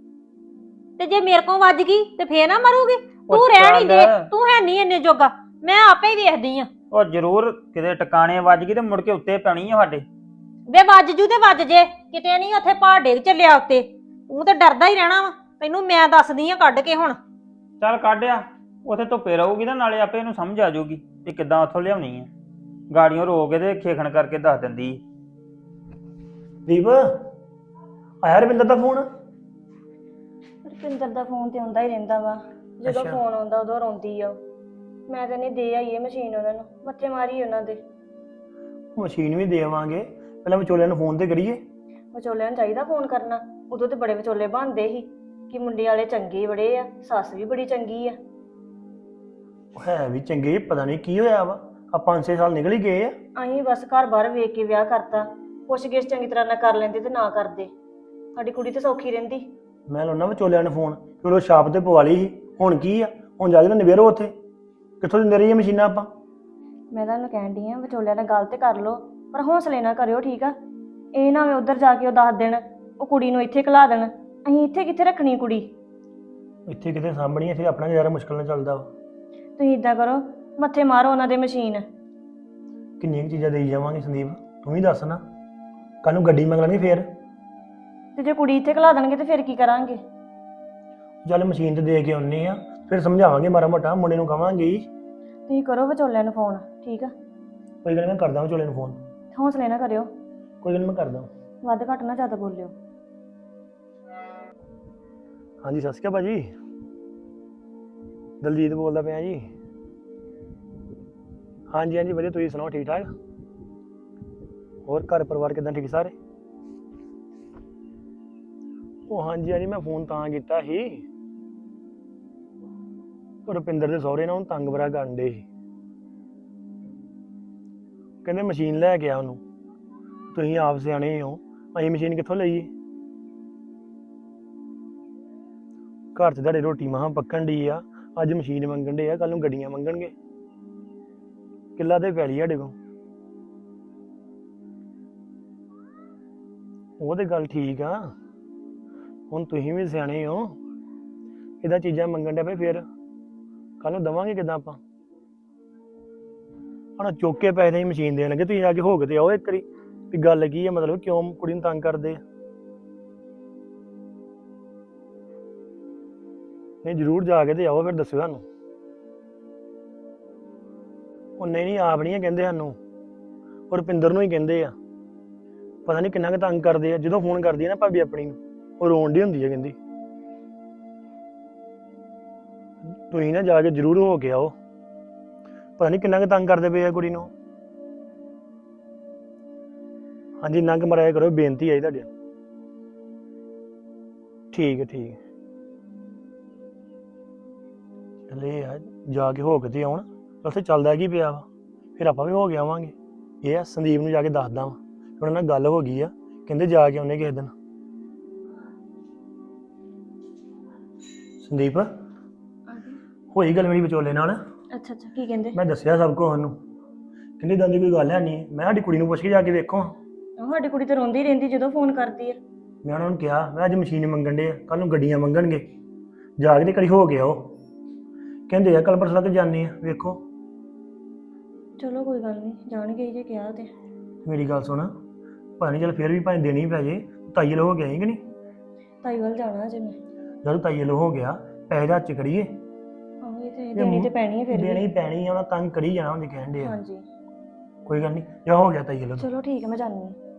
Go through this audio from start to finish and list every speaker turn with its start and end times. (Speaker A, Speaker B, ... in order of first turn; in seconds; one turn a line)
Speaker A: 1.0-6.7
Speaker B: 3.3-4.2
Speaker B: 6.9-10.0
Speaker A: 10.7-17.2
Speaker B: 17.8-22.3
Speaker B: 22.9-25.0
Speaker C: 26.6-27.3
Speaker C: 28.2-29.1
Speaker D: 30.6-34.4
Speaker C: 32.9-33.2
Speaker D: 35.1-37.8
Speaker C: 39.0-41.6
Speaker D: 42.1-48.2
Speaker C: 49.8-53.1
Speaker D: 53.4-57.7
Speaker D: 58.4-59.5
Speaker C: 59.9-64.3
Speaker C: 65.0-66.1
Speaker D: 66.9-70.5
Speaker D: 71.1-75.8
Speaker C: 76.7-78.9
Speaker D: 79.6-81.8
Speaker C: 83.0-85.2
Speaker C: 86.0-87.1
Speaker D: 88.2-90.0
Speaker C: 91.2-94.8
Speaker D: 95.5-97.1
Speaker C: 97.8-99.0
Speaker D: 99.3-100.1
Speaker C: 100.6-101.3
Speaker D: 101.6-102.7
Speaker C: 105.6-106.5
Speaker C: 108.4-109.5
Speaker C: 111.7-113.1
Speaker C: 114.8-116.1
Speaker C: 119.1-121.0
Speaker C: 123.5-125.4
Speaker C: 128.2-129.4
Speaker C: 130.3-132.7
Speaker C: 136.2-140.1
Speaker C: 141.8-142.7
Speaker C: 147.0-148.1
Speaker C: 149.3-150.6
Speaker C: 151.6-152.8
Speaker C: 153.8-154.8
Speaker C: 157.0-162.2
Speaker C: 166.8-168.4
Speaker C: 171.4-172.8
Speaker C: 173.7-174.7
Speaker C: 175.8-179.8
Speaker C: 182.9-184.5
Speaker C: 185.8-187.3
Speaker C: 190.4-192.1
Speaker C: 194.5-195.2
Speaker C: 198.3-201.4
Speaker C: 202.0-207.5
Speaker C: 211.4-211.9
Speaker D: 212.7-213.0
Speaker C: 213.3-214.4
Speaker D: 214.7-215.6
Speaker C: 215.5-216.6
Speaker C: 217.4-219.9
Speaker D: 220.4-222.4
Speaker C: 222.8-225.6
Speaker C: 226.4-227.6
Speaker C: 228.5-230.2
Speaker D: 231.8-233.7
Speaker C: 234.2-234.9
Speaker C: 235.6-238.2
Speaker D: 239.0-240.0
Speaker C: 240.4-242.6
Speaker D: 243.2-244.8
Speaker C: 243.7-246.8
Speaker D: 246.6-247.0
Speaker C: 247.8-249.3
Speaker D: 249.2-250.2